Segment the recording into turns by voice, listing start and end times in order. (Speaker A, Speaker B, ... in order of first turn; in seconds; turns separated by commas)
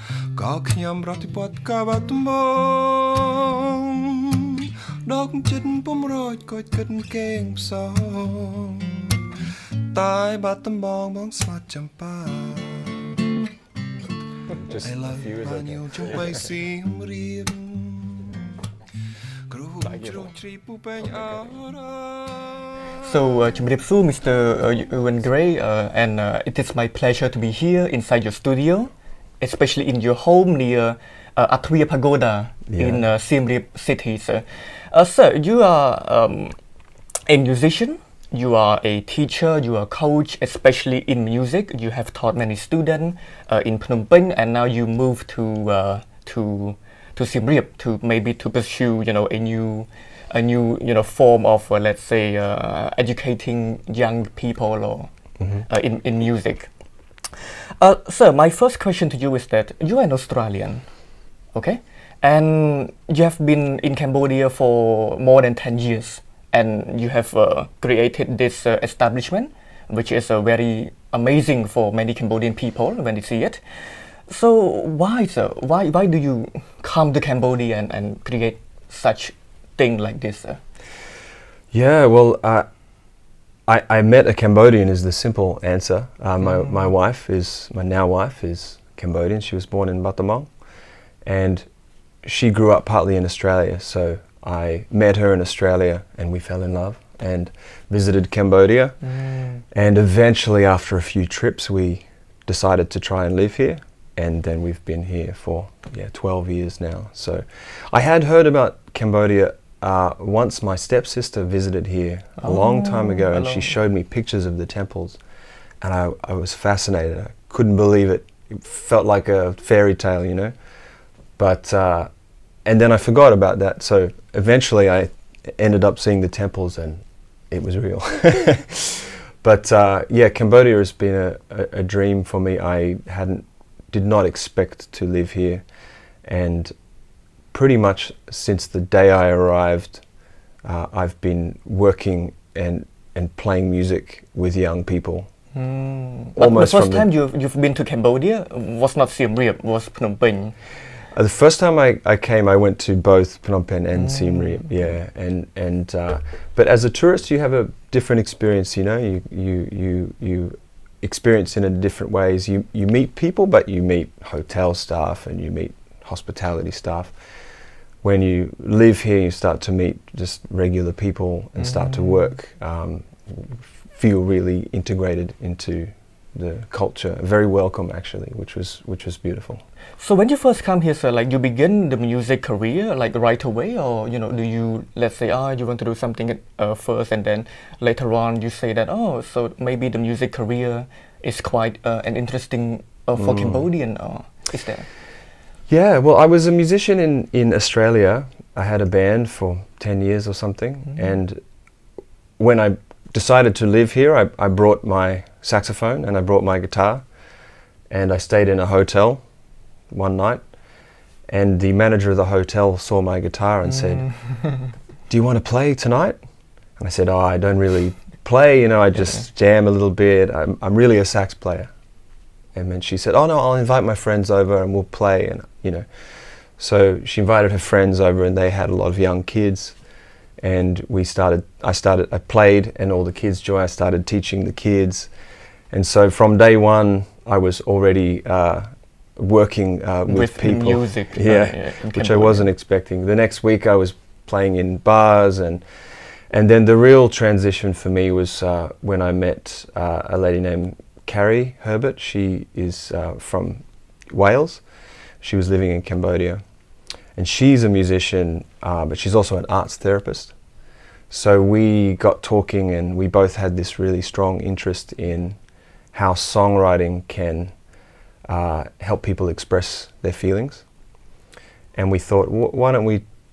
Speaker A: 0.3-9.3, Speaker A: 9.9-13.2, Speaker B: 14.6-16.4, Speaker A: 14.8-18.6, Speaker A: 19.5-23.0, Speaker C: 19.8-20.3, Speaker C: 23.0-36.5, Speaker B: 32.7-33.0, Speaker C: 37.3-56.7, Speaker C: 57.4-60.8, Speaker C: 61.5-73.6, Speaker C: 74.3-80.6, Speaker B: 81.7-82.7, Speaker B: 83.7-90.5, Speaker B: 91.2-91.7, Speaker B: 92.2-99.0, Speaker C: 99.1-99.6, Speaker B: 99.7-115.2, Speaker C: 112.4-113.7, Speaker B: 115.8-120.5, Speaker B: 121.4-122.1, Speaker B: 122.6-135.6, Speaker B: 136.2-136.7, Speaker B: 137.5-140.0, Speaker B: 140.6-145.3, Speaker C: 145.5-150.5, Speaker B: 146.3-147.1, Speaker B: 151.1-167.2, Speaker B: 168.0-179.6, Speaker C: 180.0-194.9, Speaker B: 193.2-193.6, Speaker B: 195.7-201.4, Speaker B: 202.4-207.0, Speaker B: 207.9-209.2, Speaker B: 209.9-210.4, Speaker B: 211.3-214.1, Speaker C: 214.1-214.6, Speaker B: 215.1-216.2, Speaker B: 216.8-221.7, Speaker B: 222.5-225.8, Speaker B: 226.6-229.8, Speaker B: 230.4-235.1, Speaker B: 235.7-245.6, Speaker C: 240.1-242.4, Speaker B: 246.3-254.6, Speaker B: 255.2-256.4, Speaker B: 257.1-260.3, Speaker B: 261.1-265.4, Speaker B: 265.9-267.5, Speaker B: 268.3-270.6, Speaker B: 271.7-273.0